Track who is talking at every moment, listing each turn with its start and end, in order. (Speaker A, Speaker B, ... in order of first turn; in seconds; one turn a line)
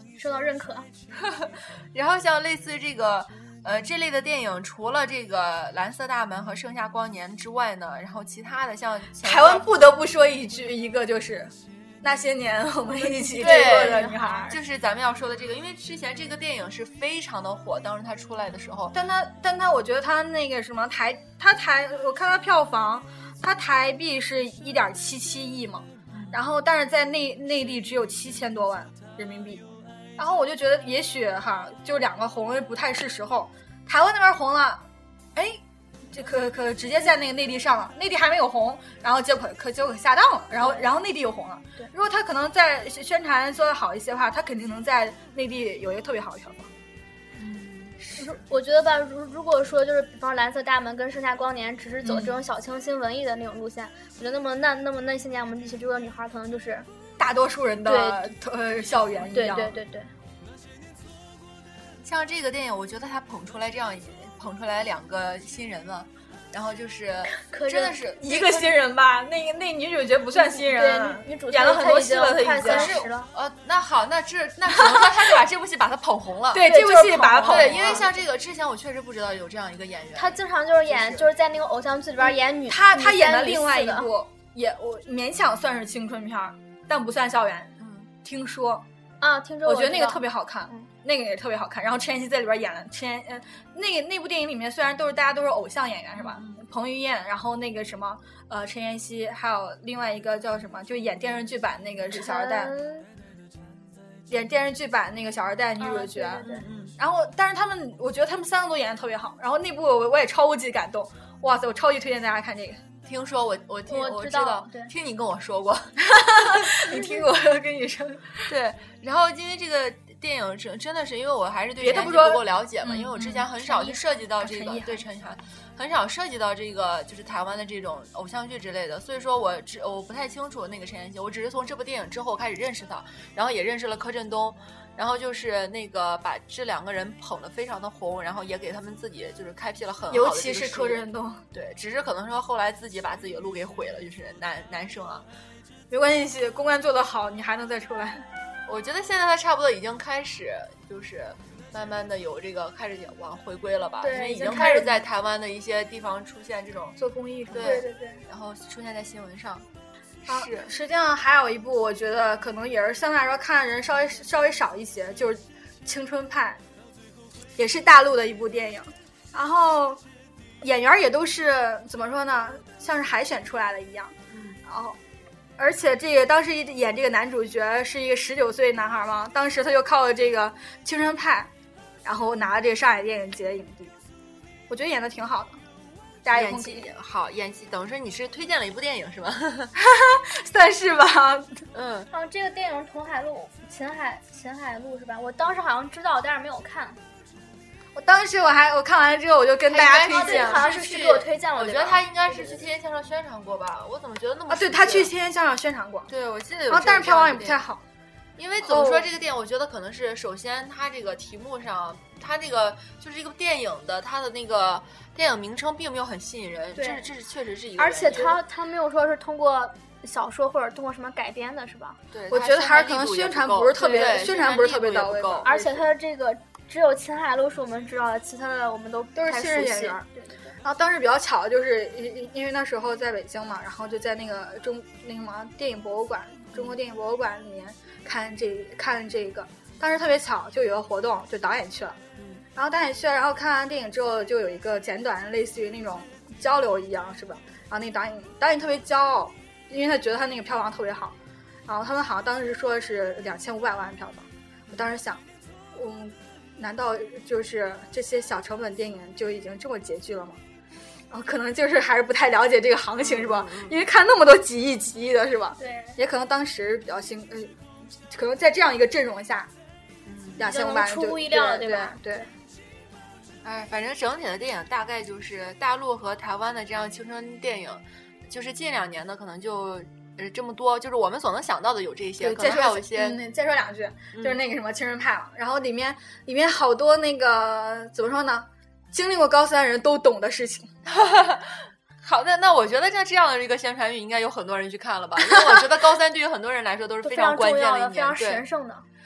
Speaker A: 0.1-0.9
Speaker B: 1.1-9.7
Speaker C: 9.2-14.6
Speaker A: 13.1-14.5
Speaker B: 13.4-18.9
Speaker C: 18.9-29.6
Speaker B: 26.1-26.4
Speaker C: 30.2-46.7
Speaker B: 47.4-48.0
Speaker A: 48.1-56.9
Speaker B: 52.0-52.3
Speaker C: 57.2-59.8
Speaker A: 57.9-58.3
Speaker A: 59.3-60.1
Speaker B: 62.0-68.7
Speaker A: 67.3-68.0
Speaker C: 68.2-73.0
Speaker A: 70.3-73.3
Speaker B: 72.6-76.7
Speaker C: 74.7-75.3
Speaker C: 76.5-78.1
Speaker A: 76.6-78.1
Speaker B: 77.4-81.3
Speaker A: 80.2-84.1
Speaker C: 82.7-88.8
Speaker B: 87.8-88.1
Speaker A: 89.2-90.8
Speaker C: 89.6-102.7
Speaker B: 96.2-96.6
Speaker A: 102.1-103.0
Speaker C: 104.3-112.8
Speaker A: 105.8-106.6
Speaker B: 106.5-106.9
Speaker B: 113.0-116.7
Speaker A: 113.9-114.9
Speaker C: 116.0-118.5
Speaker B: 118.5-145.2
Speaker C: 121.8-125.0
Speaker C: 140.1-141.4
Speaker C: 145.9-148.2
Speaker B: 148.7-156.9
Speaker A: 154.0-154.9
Speaker C: 154.4-154.9
Speaker C: 156.9-157.8
Speaker B: 157.5-159.7
Speaker A: 157.6-158.2
Speaker B: 160.2-160.7
Speaker C: 160.3-166.6
Speaker C: 167.6-170.0
Speaker C: 170.6-174.1
Speaker B: 174.3-174.6
Speaker C: 174.7-175.0
Speaker C: 175.6-181.5
Speaker C: 182.0-183.9
Speaker C: 184.7-185.6
Speaker C: 186.2-186.9
Speaker B: 186.3-189.7
Speaker C: 189.8-191.7
Speaker B: 191.7-192.1
Speaker A: 192.1-197.0
Speaker C: 197.9-200.6
Speaker B: 199.7-205.1
Speaker A: 200.1-202.6
Speaker C: 204.5-206.1
Speaker B: 206.1-207.6
Speaker C: 206.7-207.8
Speaker B: 208.4-218.4
Speaker C: 208.7-209.1
Speaker A: 216.8-217.1
Speaker A: 217.8-222.0
Speaker B: 222.1-225.5
Speaker C: 222.3-225.8
Speaker A: 223.8-224.2
Speaker A: 225.4-230.5
Speaker C: 229.1-230.0
Speaker C: 230.6-242.0
Speaker B: 236.5-236.8
Speaker B: 242.2-242.4
Speaker C: 242.6-251.1
Speaker C: 251.7-255.2
Speaker C: 255.7-260.4
Speaker C: 261.1-269.5
Speaker B: 263.0-263.8
Speaker A: 265.6-266.0
Speaker B: 270.0-270.5
Speaker C: 270.4-272.3
Speaker A: 270.4-272.0
Speaker B: 273.4-283.2
Speaker C: 282.2-290.7
Speaker B: 284.1-284.4
Speaker B: 290.9-298.4
Speaker A: 297.0-298.9